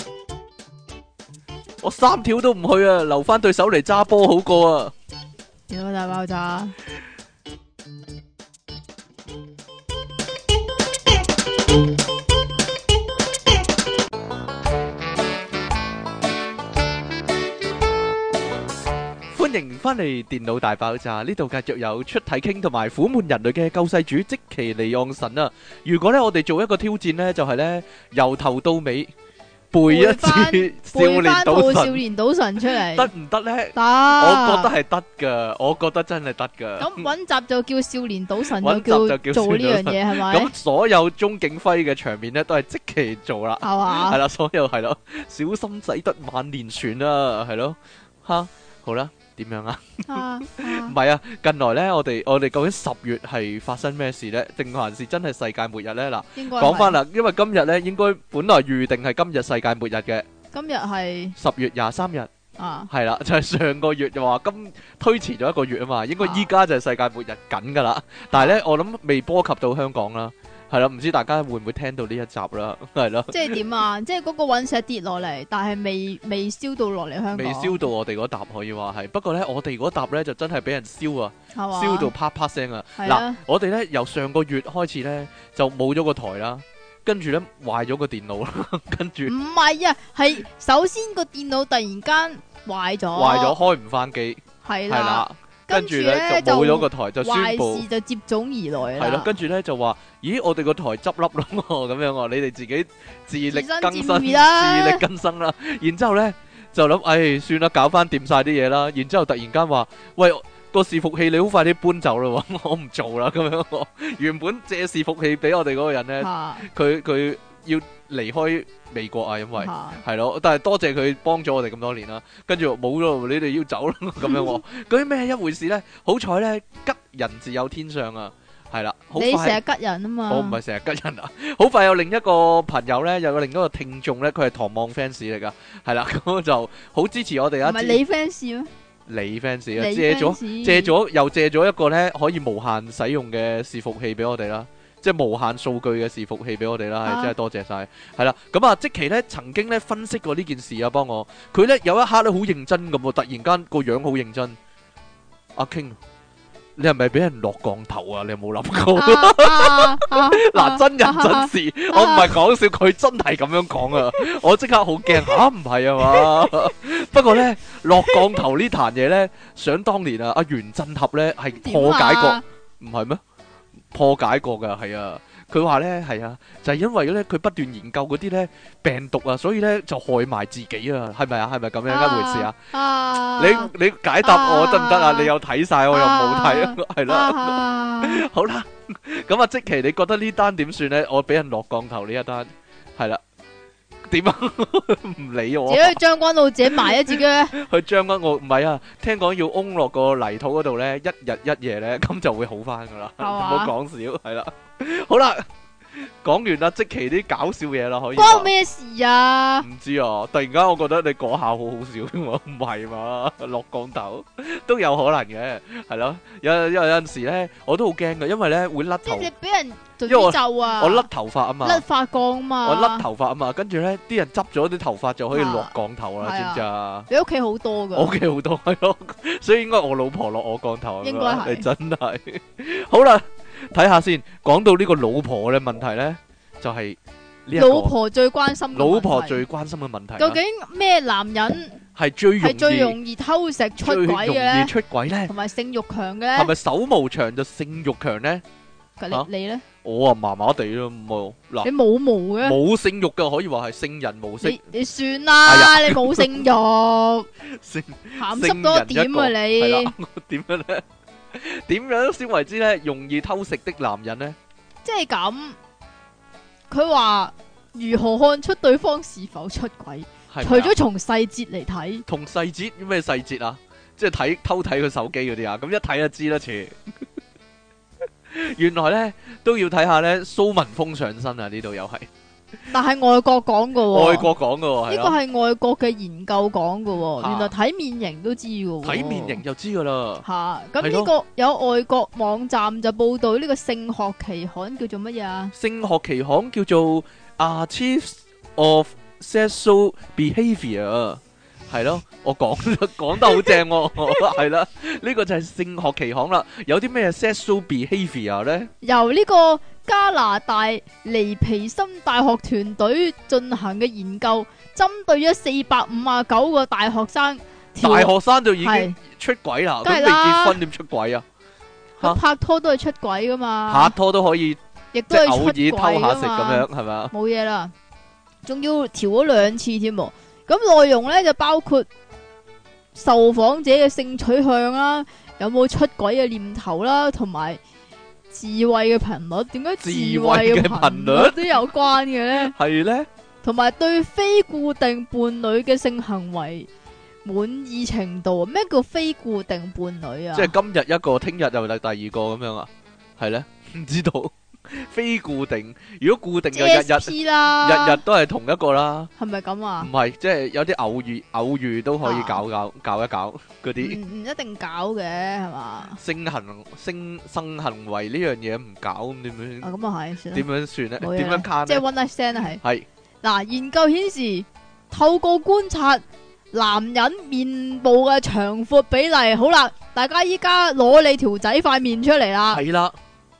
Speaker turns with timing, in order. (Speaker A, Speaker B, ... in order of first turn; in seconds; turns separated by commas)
Speaker A: 1.8-4.9, Speaker B: 5.7-6.7, Speaker A: 19.3-29.1, Speaker A: 29.7-32.0, Speaker B: 29.8-33.1, Speaker A: 32.7-37.1, Speaker B: 33.7-34.7, Speaker B: 36.8-40.5, Speaker A: 38.6-60.2, Speaker B: 43.6-44.2, Speaker B: 50.1-50.9, Speaker B: 56.4-57.0, Speaker B: 60.5-61.4, Speaker A: 61.4-62.3, Speaker B: 62.6-62.9, Speaker A: 62.9-73.6, Speaker B: 66.2-66.5, Speaker B: 68.3-68.6, Speaker B: 73.3-77.8, Speaker A: 77.3-89.3, Speaker B: 81.5-82.1, Speaker B: 83.0-83.4, Speaker B: 89.2-93.5, Speaker A: 93.1-97.8, Speaker B: 94.6-99.3, Speaker A: 99.0-129.6, Speaker B: 103.5-105.0, Speaker B: 116.2-116.7, Speaker B: 119.5-120.0, Speaker B: 124.2-124.6, Speaker B: 129.1-130.6, Speaker A: 130.3-138.0, Speaker B: 137.6-138.7, Speaker A: 139.1-154.6, Speaker B: 139.8-140.9, Speaker B: 147.0-147.3, Speaker A: 155.5-156.0, Speaker A: 156.8-173.2, Speaker B: 158.9-162.3, Speaker B: 163.9-164.3, Speaker B: 165.1-165.4, Speaker B: 166.0-166.5, Speaker B: 168.0-168.4, Speaker B: 171.5-172.4, Speaker A: 173.9-182.5, Speaker B: 181.9-183.7, Speaker A: 183.4-193.2, Speaker B: 184.2-185.3, Speaker B: 185.9-188.2, Speaker A: 194.1-196.0, Speaker B: 195.7-197.6, Speaker A: 196.6-205.4, Speaker B: 203.2-203.7, Speaker A: 206.0-208.5, Speaker B: 208.1-209.7, Speaker A: 209.6-219.3, Speaker B: 219.0-221.1, Speaker A: 220.1-221.8, Speaker B: 221.6-223.0, Speaker A: 222.6-227.1, Speaker B: 225.3-228.1, Speaker A: 227.9-237.9, Speaker B: 231.0-231.7, Speaker B: 237.6-239.4, Speaker A: 238.7-240.4, Speaker B: 240.2-241.8, Speaker A: 241.9-243.0, Speaker B: 242.4-244.7, Speaker A: 243.8-245.3, Speaker B: 245.3-246.5, Speaker A: 246.3-248.4, Speaker B: 249.0-249.6, Speaker A: 249.8-251.7, Speaker B: 251.6-252.6, Speaker A: 252.4-254.6, Speaker B: 254.4-257.3, Speaker A: 255.4-256.5, Speaker A: 257.4-264.4, Speaker B: 258.2-259.9, Speaker B: 264.8-265.6, Speaker B: 266.7-272.0, Speaker A: 270.3-270.7, Speaker A: 272.1-276.9, Speaker A: 278.3-282.1, Speaker B: 282.7-284.3, Speaker A: 283.9-285.1, Speaker B: 284.9-289.4, Speaker A: 287.2-287.5, Speaker A: 288.8-290.2, Speaker B: 290.2-295.5, Speaker A: 290.8-291.1, Speaker A: 295.5-308.7, Speaker B: 308.8-319.0, Speaker A: 317.8-321.2, Speaker B: 319.8-320.6, Speaker B: 322.0-323.9, Speaker A: 323.7-327.1, Speaker B: 324.9-327.7, Speaker B: 328.4-331.9, Speaker B: 332.9-337.6, Speaker B: 338.3-342.5, Speaker A: 339.8-341.4, Speaker A: 342.4-343.1, Speaker B: 343.4-346.7, Speaker B: 347.2-350.5, Speaker A: 350.3-359.1, Speaker B: 356.5-358.0, Speaker B: 359.2-359.9, Speaker A: 359.8-364.0, Speaker B: 362.0-362.4, Speaker B: 363.8-366.0, Speaker A: 366.0-369.7, Speaker B: 369.6-370.4, Speaker A: 370.3-371.8, Speaker B: 371.0-372.6, Speaker B: 373.2-382.6, Speaker A: 382.5-382.9